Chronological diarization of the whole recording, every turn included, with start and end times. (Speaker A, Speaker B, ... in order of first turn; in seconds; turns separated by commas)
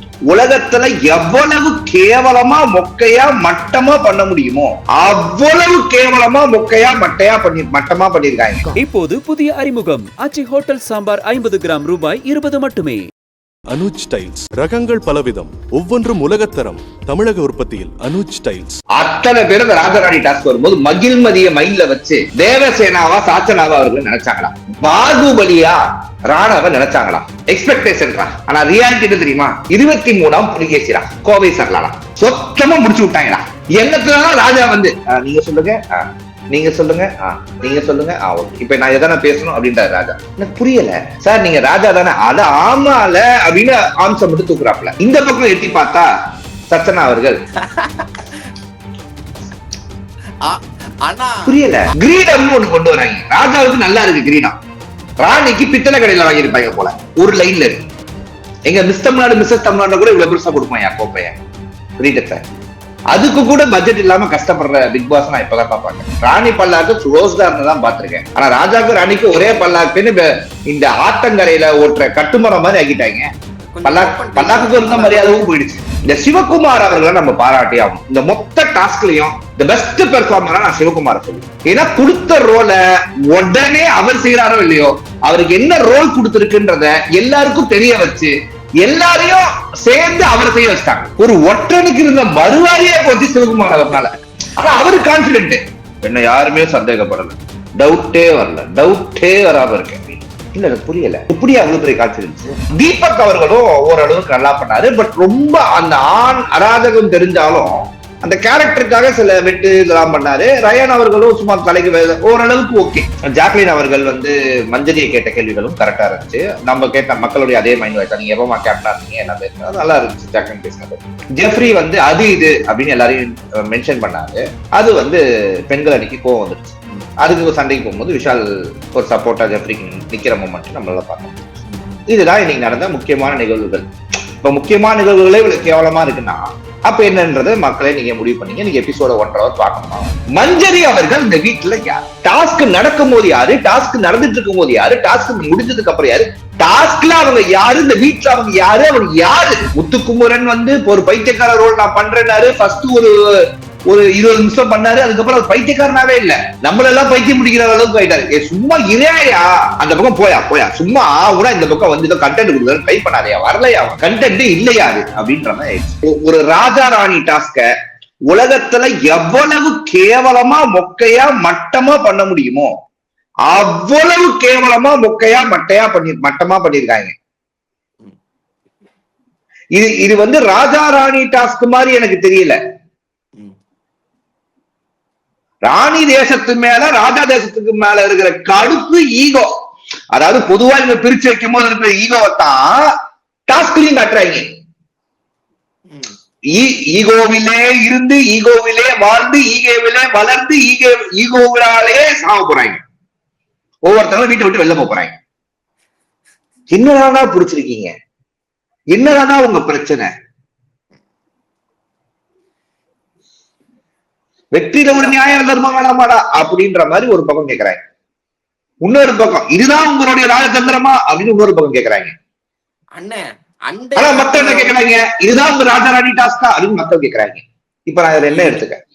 Speaker A: 0.3-8.7, Speaker B: 8.8-13.0, Speaker C: 13.7-18.8, Speaker A: 19.0-46.1, Speaker A: 46.7-47.4, Speaker D: 47.6-48.5, Speaker D: 50.4-51.5, Speaker A: 51.5-54.5, Speaker A: 55.2-57.8, Speaker A: 58.7-61.4, Speaker A: 62.0-62.4, Speaker A: 63.1-73.3, Speaker D: 73.6-75.5, Speaker A: 73.8-131.3, Speaker D: 131.7-132.0, Speaker A: 132.1-133.9, Speaker A: 134.4-167.7, Speaker A: 168.3-172.7, Speaker A: 173.5-177.1, Speaker A: 179.8-182.6, Speaker A: 185.7-189.5, Speaker A: 190.1-192.9, Speaker A: 193.5-194.5, Speaker D: 195.9-196.2, Speaker A: 196.5-202.8, Speaker A: 203.8-205.2, Speaker A: 206.7-207.9, Speaker A: 208.9-210.1, Speaker A: 214.5-217.8, Speaker A: 218.8-222.1, Speaker D: 222.9-224.8, Speaker A: 224.0-228.8, Speaker D: 228.3-228.6